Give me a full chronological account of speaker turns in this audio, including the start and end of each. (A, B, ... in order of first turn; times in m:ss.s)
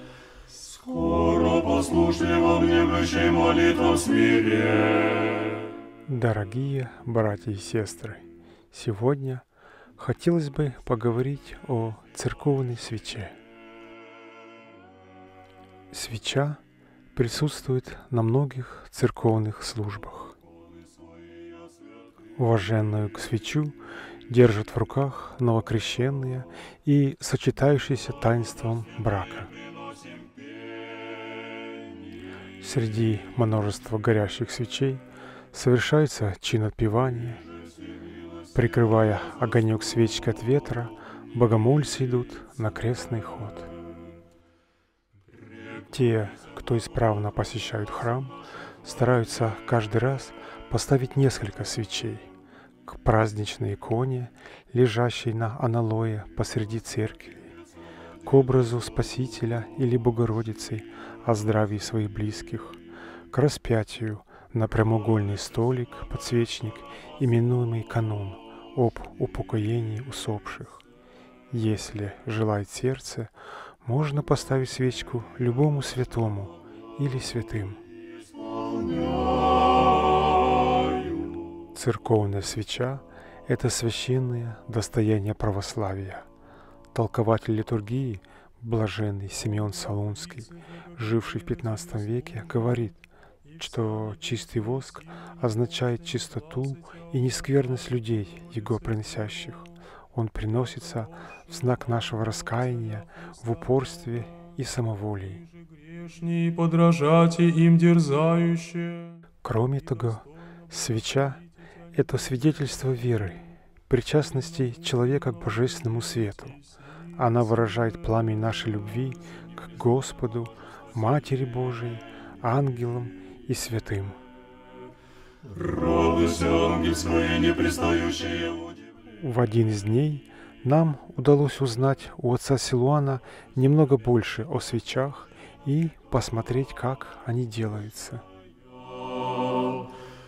0:00.5-0:05.7 A
0:06.0-0:09.4 B
0:10.0-0:13.3 B
0:15.9-0:16.6 B
0:17.1-0:20.4 B
0:22.4-0:23.8 B
0:24.3-0:29.5 B
0:32.6-0:37.4 B
0:38.5-0:43.7 B
0:45.9-0:52.3 B
0:52.8-0:57.5 B
0:58.2-1:02.8 B
1:03.3-1:10.8 B
1:11.5-1:13.3 B
1:13.8-1:17.8 B
1:18.5-1:20.1 A
1:20.6-1:21.2 A
1:21.7-1:26.2 B
1:26.9-1:33.0 B
1:33.6-1:45.4 B
1:45.8-1:49.2 A
1:49.4-1:51.4 B
1:51.9-1:56.6 B
1:57.2-2:04.2 B
2:05.5-2:08.8 A
2:09.1-2:18.2 B
2:19.4-2:19.7 A